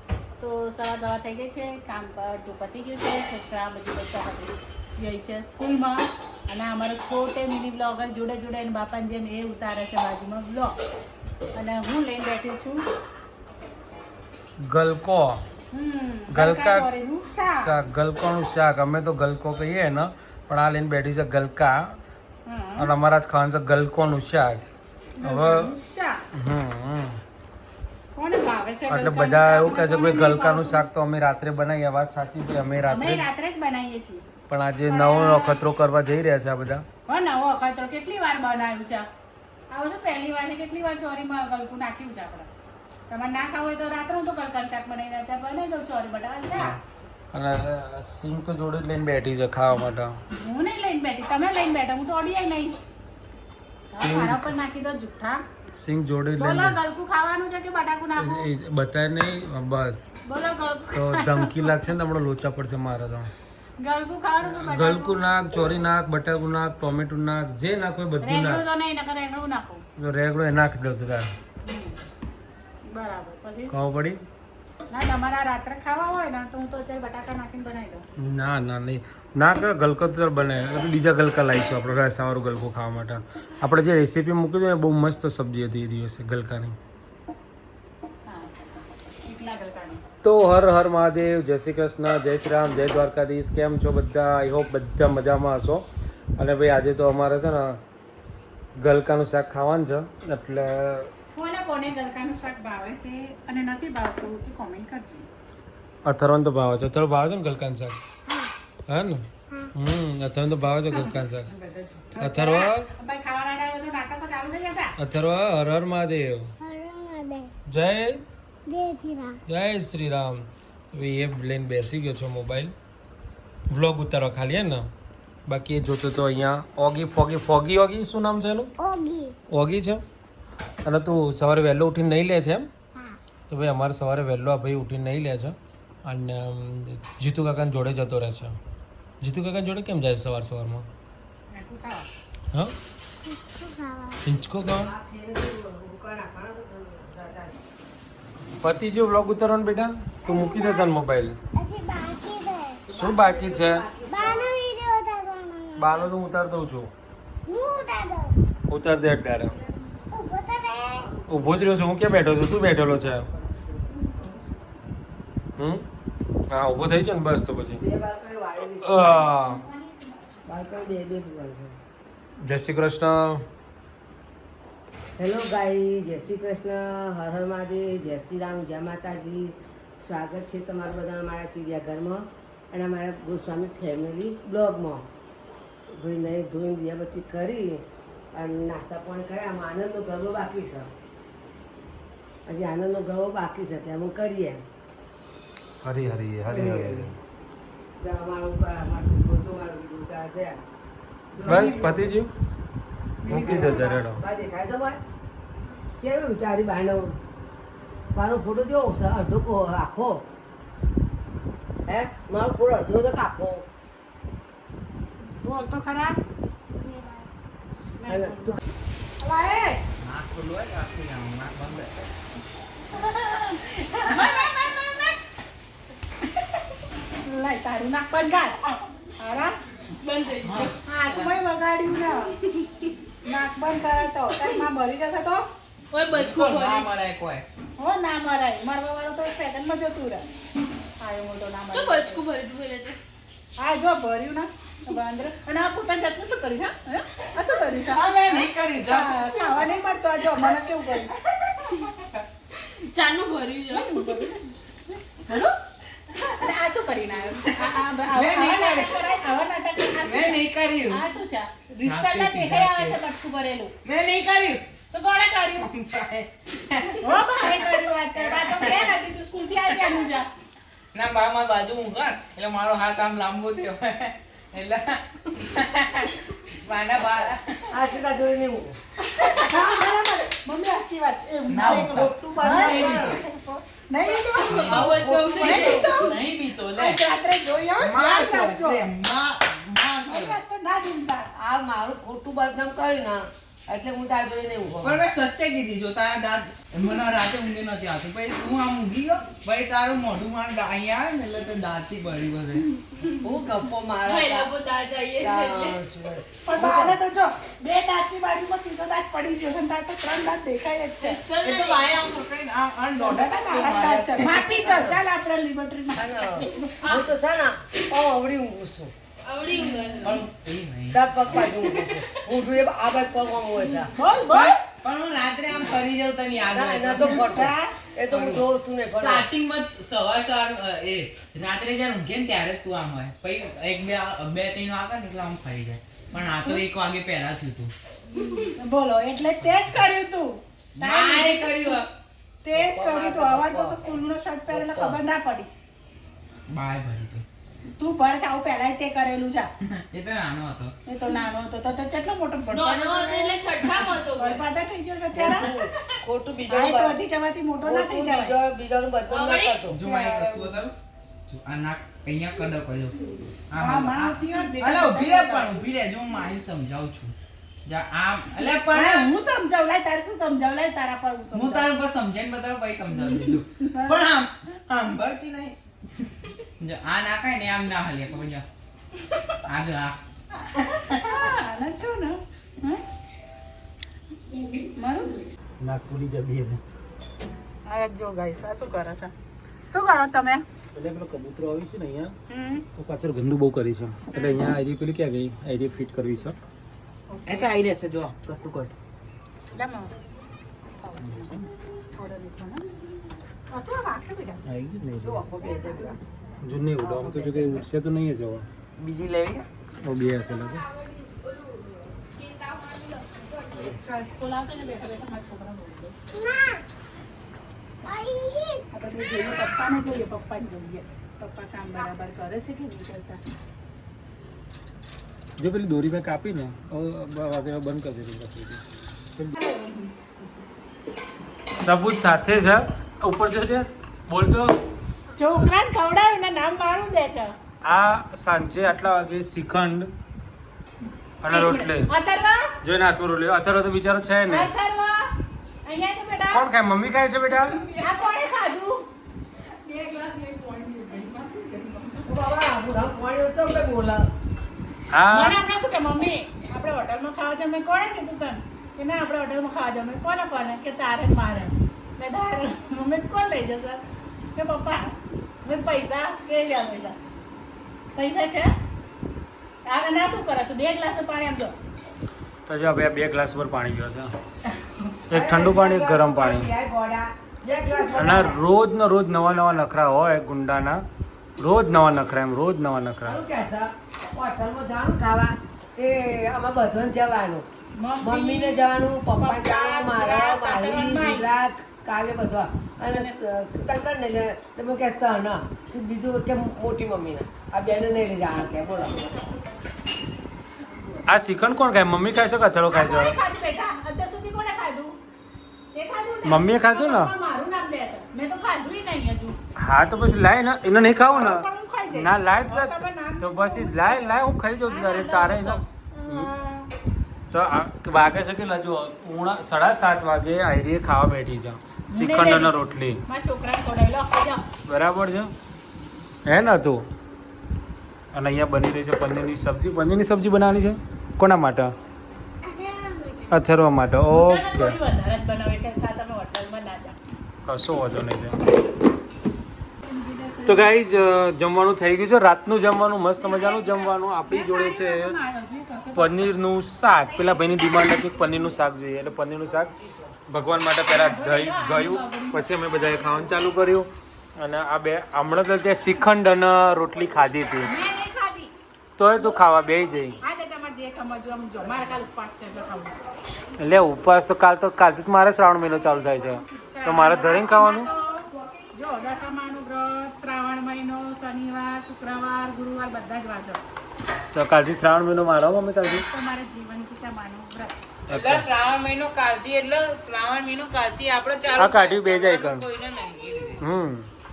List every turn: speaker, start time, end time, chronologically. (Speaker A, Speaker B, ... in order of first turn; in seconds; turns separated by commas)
Speaker A: 0.4-10.8, Speaker A: 11.5-12.8, Speaker B: 14.6-15.4, Speaker A: 15.7-17.8, Speaker B: 16.3-16.9, Speaker B: 17.5-22.0, Speaker A: 22.5-22.9, Speaker B: 22.8-24.6, Speaker A: 25.2-26.2, Speaker B: 25.2-25.7, Speaker B: 26.3-27.2, Speaker A: 28.1-30.9, Speaker B: 28.9-33.3, Speaker A: 32.9-34.2, Speaker B: 34.5-36.8, Speaker A: 34.9-35.6, Speaker A: 37.1-39.1, Speaker A: 39.7-42.5, Speaker A: 43.1-46.8, Speaker B: 47.3-50.2, Speaker A: 50.4-52.7, Speaker B: 53.9-54.5, Speaker A: 53.9-55.4, Speaker B: 55.8-56.8, Speaker A: 56.4-58.5, Speaker B: 58.2-60.1, Speaker A: 60.3-61.8, Speaker B: 60.9-63.3, Speaker A: 63.8-65.3, Speaker B: 64.4-68.6, Speaker A: 68.2-69.8, Speaker B: 70.0-71.3, Speaker A: 71.7-72.0, Speaker A: 72.9-73.7, Speaker B: 73.7-74.2, Speaker A: 74.9-78.0, Speaker B: 78.2-86.8, Speaker A: 88.2-90.0, Speaker B: 90.2-95.8, Speaker B: 96.4-97.8, Speaker B: 98.8-101.1, Speaker A: 101.3-105.3, Speaker B: 106.1-108.0, Speaker B: 108.9-111.5, Speaker A: 110.9-114.9, Speaker B: 112.2-112.9, Speaker B: 115.0-116.5, Speaker C: 116.6-117.5, Speaker B: 117.7-118.2, Speaker C: 118.7-119.4, Speaker B: 119.5-122.7, Speaker B: 123.7-124.9, Speaker B: 125.5-128.7, Speaker C: 128.9-129.3, Speaker B: 129.5-130.0, Speaker B: 130.8-132.7, Speaker B: 133.5-138.6, Speaker B: 139.2-140.9, Speaker A: 141.5-142.1, Speaker C: 143.3-144.2, Speaker B: 144.2-144.9, Speaker D: 144.7-147.6, Speaker B: 148.6-151.4, Speaker C: 151.6-152.8, Speaker B: 152.9-153.9, Speaker D: 152.9-154.6, Speaker C: 154.1-155.7, Speaker B: 155.8-156.9, Speaker C: 157.5-158.3, Speaker B: 158.7-159.6, Speaker C: 160.1-161.1, Speaker B: 161.3-163.2, Speaker B: 165.6-165.9, Speaker B: 166.5-167.8, Speaker D: 167.8-169.2, Speaker B: 168.8-169.6, Speaker D: 170.5-171.8, Speaker B: 172.4-173.4, Speaker D: 175.2-185.1, Speaker D: 185.9-190.9, Speaker D: 192.5-194.6, Speaker B: 195.8-197.1, Speaker D: 196.5-197.1, Speaker D: 198.0-200.6, Speaker D: 201.3-202.1, Speaker B: 201.4-202.3, Speaker A: 203.2-203.9, Speaker B: 203.3-204.2, Speaker D: 203.3-205.0, Speaker D: 206.0-207.2, Speaker D: 208.1-210.2, Speaker D: 211.9-213.7, Speaker A: 215.2-216.2, Speaker A: 218.0-218.6, Speaker D: 218.1-218.6, Speaker A: 219.2-219.8, Speaker E: 220.0-222.0, Speaker A: 223.0-225.1, Speaker F: 224.1-225.1, Speaker A: 227.2-229.6, Speaker F: 229.9-230.8, Speaker E: 230.4-231.3, Speaker A: 230.8-232.4, Speaker A: 233.2-235.5, Speaker F: 234.3-234.6, Speaker F: 235.9-236.9, Speaker E: 236.1-237.4, Speaker A: 237.8-240.2, Speaker A: 241.0-242.2, Speaker F: 241.7-243.0, Speaker A: 243.6-251.8, Speaker E: 247.8-249.2, Speaker F: 252.6-254.3, Speaker A: 253.7-254.4, Speaker A: 255.1-255.5, Speaker E: 256.1-256.4, Speaker A: 256.4-263.7, Speaker E: 258.1-259.0, Speaker E: 260.0-261.0, Speaker E: 261.8-263.0, Speaker E: 263.8-264.6, Speaker A: 264.9-265.7, Speaker E: 265.6-267.6, Speaker A: 267.0-270.3, Speaker E: 268.1-268.9, Speaker E: 270.9-277.7, Speaker D: 277.7-278.8, Speaker A: 279.0-286.2, Speaker E: 281.5-283.2, Speaker D: 281.6-283.2, Speaker F: 284.1-286.2, Speaker E: 284.4-287.0, Speaker A: 286.8-288.8, Speaker E: 287.8-290.4, Speaker A: 290.1-291.3, Speaker D: 291.4-295.0, Speaker E: 294.8-302.7, Speaker D: 303.1-304.5, Speaker F: 304.0-305.8, Speaker D: 305.2-307.0, Speaker A: 306.4-311.2, Speaker F: 311.0-311.9, Speaker E: 311.4-314.4, Speaker A: 313.0-316.8, Speaker D: 314.4-315.0, Speaker D: 315.9-318.9, Speaker F: 316.7-317.1, Speaker F: 319.2-320.2, Speaker E: 320.0-321.5, Speaker D: 320.9-323.9, Speaker F: 321.4-322.2, Speaker A: 323.9-324.6, Speaker E: 324.3-327.5, Speaker D: 326.5-329.3, Speaker A: 327.0-327.7, Speaker E: 328.1-337.7, Speaker F: 338.2-338.5, Speaker A: 338.3-341.8, Speaker E: 340.8-341.9, Speaker A: 342.4-345.5, Speaker D: 342.5-344.0, Speaker D: 344.5-345.0, Speaker E: 346.5-347.2, Speaker A: 347.8-349.5, Speaker E: 349.7-350.7, Speaker A: 350.9-355.5, Speaker F: 352.5-354.4, Speaker D: 355.1-357.0, Speaker A: 356.5-358.3, Speaker D: 357.6-360.5, Speaker F: 359.1-359.7, Speaker E: 359.7-360.8, Speaker A: 359.9-360.2, Speaker E: 361.3-367.1, Speaker A: 363.6-365.6, Speaker E: 367.6-369.1, Speaker A: 368.4-371.7, Speaker E: 371.3-376.1, Speaker A: 372.9-374.0, Speaker E: 376.6-378.4, Speaker E: 379.4-381.2, Speaker A: 380.9-382.8, Speaker A: 384.6-385.2, Speaker B: 385.6-386.6, Speaker A: 387.7-389.1, Speaker A: 389.7-390.4, Speaker B: 390.8-392.1, Speaker A: 392.3-392.6, Speaker B: 392.8-396.3, Speaker A: 394.1-394.5, Speaker A: 397.1-397.5, Speaker E: 397.3-398.7, Speaker A: 399.5-399.9, Speaker A: 400.8-401.4, Speaker A: 401.9-402.7, Speaker A: 403.5-404.4, Speaker B: 404.5-405.2, Speaker D: 405.0-406.0, Speaker B: 406.4-408.4, Speaker D: 406.8-407.6, Speaker E: 408.8-409.5, Speaker B: 409.8-410.6, Speaker F: 410.3-413.7, Speaker A: 413.5-415.9, Speaker C: 416.1-416.6, Speaker C: 417.9-418.6, Speaker A: 418.7-423.2, Speaker B: 425.4-428.6, Speaker A: 429.4-429.9, Speaker B: 431.5-434.6, Speaker A: 435.1-437.3, Speaker B: 437.6-439.9, Speaker B: 441.2-441.9, Speaker A: 441.3-442.5, Speaker B: 442.6-444.5, Speaker A: 444.3-445.1, Speaker A: 445.6-446.5, Speaker B: 446.3-447.6, Speaker F: 447.6-447.9, Speaker A: 447.7-448.9, Speaker F: 449.6-451.3, Speaker A: 450.5-452.1, Speaker D: 452.1-454.1, Speaker B: 454.9-455.4, Speaker A: 455.1-463.8, Speaker A: 464.3-466.9, Speaker A: 467.9-468.5, Speaker A: 469.6-471.5, Speaker B: 472.5-474.1, Speaker B: 475.1-476.5, Speaker D: 475.1-478.4, Speaker B: 477.9-480.8, Speaker B: 481.4-483.2, Speaker D: 483.0-487.4, Speaker A: 487.8-491.3, Speaker D: 488.0-499.3, Speaker A: 500.6-501.1, Speaker B: 501.1-503.1, Speaker A: 502.7-505.0, Speaker A: 505.7-509.4, Speaker B: 506.2-507.1, Speaker B: 509.6-516.3, Speaker A: 511.0-516.7, Speaker B: 517.3-523.0, Speaker A: 521.9-524.4, Speaker B: 524.7-525.3, Speaker B: 526.2-526.9, Speaker B: 528.1-531.7, Speaker C: 532.5-533.2, Speaker B: 533.3-534.8, Speaker A: 534.1-537.0, Speaker B: 537.5-538.4, Speaker A: 539.9-540.7, Speaker B: 540.5-545.2, Speaker A: 543.2-546.3, Speaker B: 546.0-549.7, Speaker B: 550.3-557.7, Speaker A: 550.9-553.5, Speaker A: 557.6-558.5, Speaker B: 559.0-560.2, Speaker A: 559.2-563.0, Speaker B: 563.6-567.9, Speaker A: 566.5-573.6, Speaker B: 574.3-576.0, Speaker A: 575.8-577.8, Speaker B: 578.1-578.5, Speaker E: 578.1-583.6, Speaker B: 581.5-582.7, Speaker B: 583.6-584.1